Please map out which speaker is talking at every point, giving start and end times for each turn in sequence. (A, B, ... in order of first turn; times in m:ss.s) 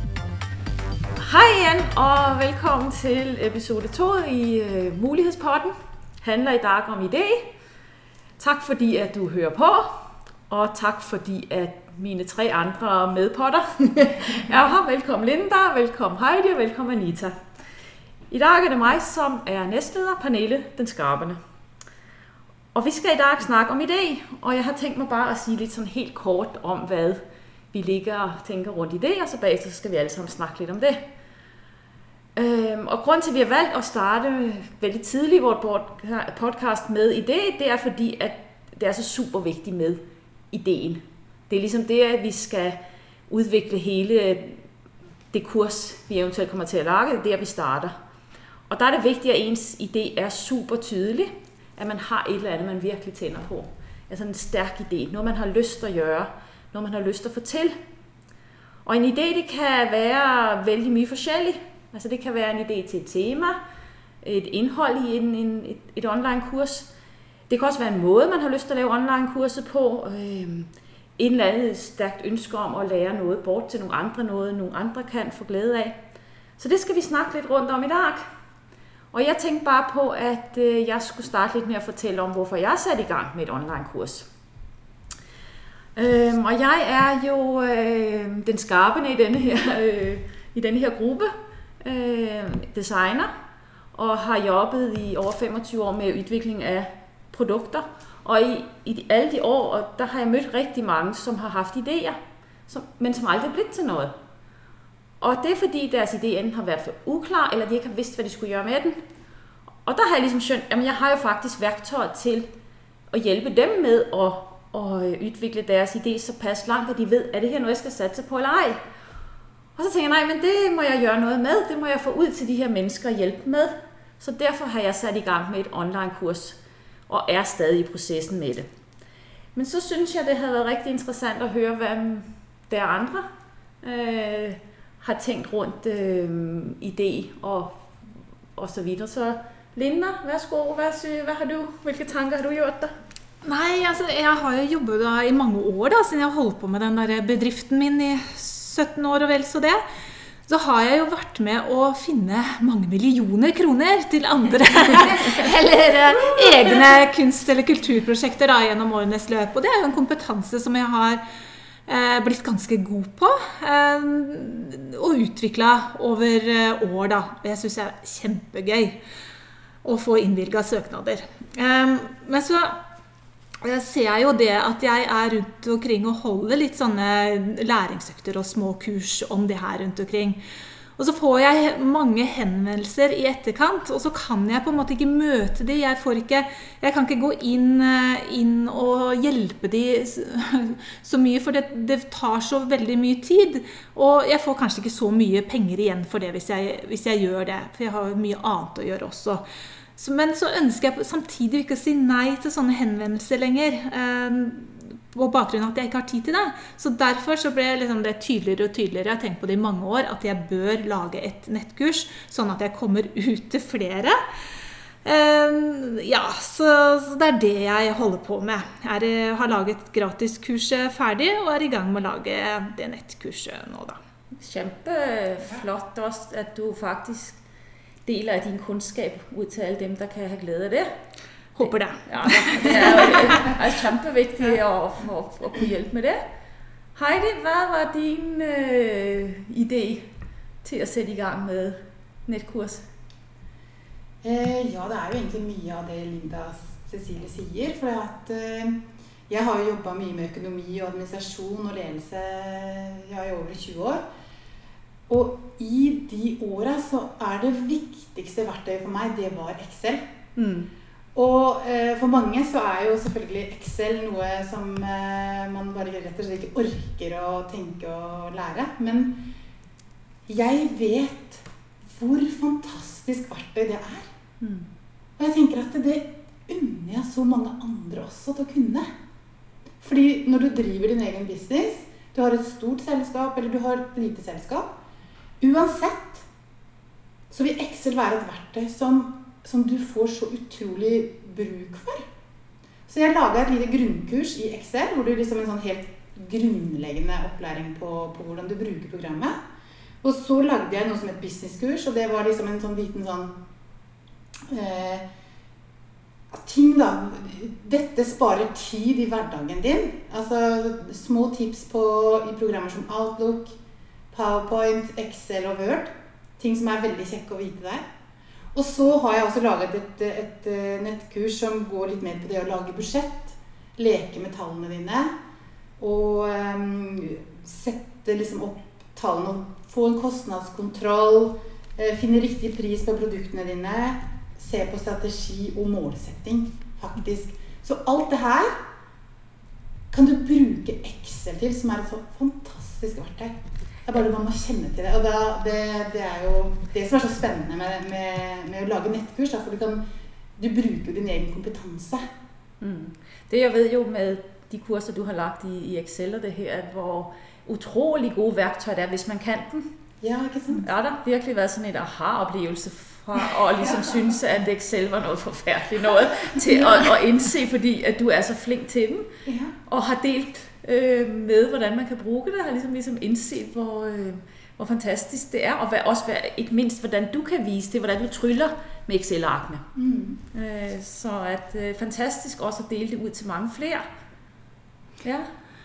0:01.2-0:07.5 A
0:08.4-0:17.4 A
0:18.3-0:21.4 A
0:22.7-0:31.0 A
0:32.4-0:44.6 A
0:45.3-0:47.9 A
0:48.7-0:57.8 A
0:58.8-1:03.6 A
1:04.2-1:06.9 A
1:07.5-1:16.0 A
1:16.6-1:18.2 A
1:19.1-1:24.3 A
1:26.0-1:33.3 A
1:33.9-1:44.1 A
1:45.2-1:49.0 A
1:49.8-1:52.5 A
1:53.1-1:58.8 A
1:59.8-2:08.7 A
2:09.6-2:13.3 A
2:13.8-2:17.9 A
2:18.6-2:22.9 A
2:23.4-2:29.8 B
2:30.5-2:41.2 B
2:41.9-2:49.0 B
2:49.8-2:52.8 B
2:53.6-3:00.4 B
3:01.0-3:19.4 B
3:20.0-3:34.2 B
3:35.0-3:44.0 B
3:44.4-3:47.4 A
3:48.1-3:50.9 A
3:51.6-3:53.4 B
3:52.0-3:56.2 A
3:57.0-4:00.1 A
4:00.6-4:02.8 A
4:04.2-4:08.8 C
4:09.3-4:14.0 C
4:15.1-4:20.0 C
4:20.4-4:20.7 A
4:21.2-4:29.2 C
4:30.3-4:34.1 C
4:34.4-4:34.7 A
4:35.2-4:38.9 C
4:39.8-4:44.7 C
4:45.4-4:46.3 C
4:47.3-4:52.0 C
4:52.9-4:59.4 C
5:00.0-5:03.4 C
5:04.5-5:05.0 C
5:06.3-5:13.6 C
5:14.1-5:17.8 C
5:18.5-5:25.1 C
5:25.8-5:38.5 C
5:39.9-5:49.8 C
5:50.4-5:52.0 C
5:52.6-5:59.7 A
6:00.0-6:00.7 C
6:00.6-6:09.1 A
6:09.2-6:09.5 C
6:09.7-6:19.6 A
6:19.8-6:20.2 C
6:20.3-6:23.8 A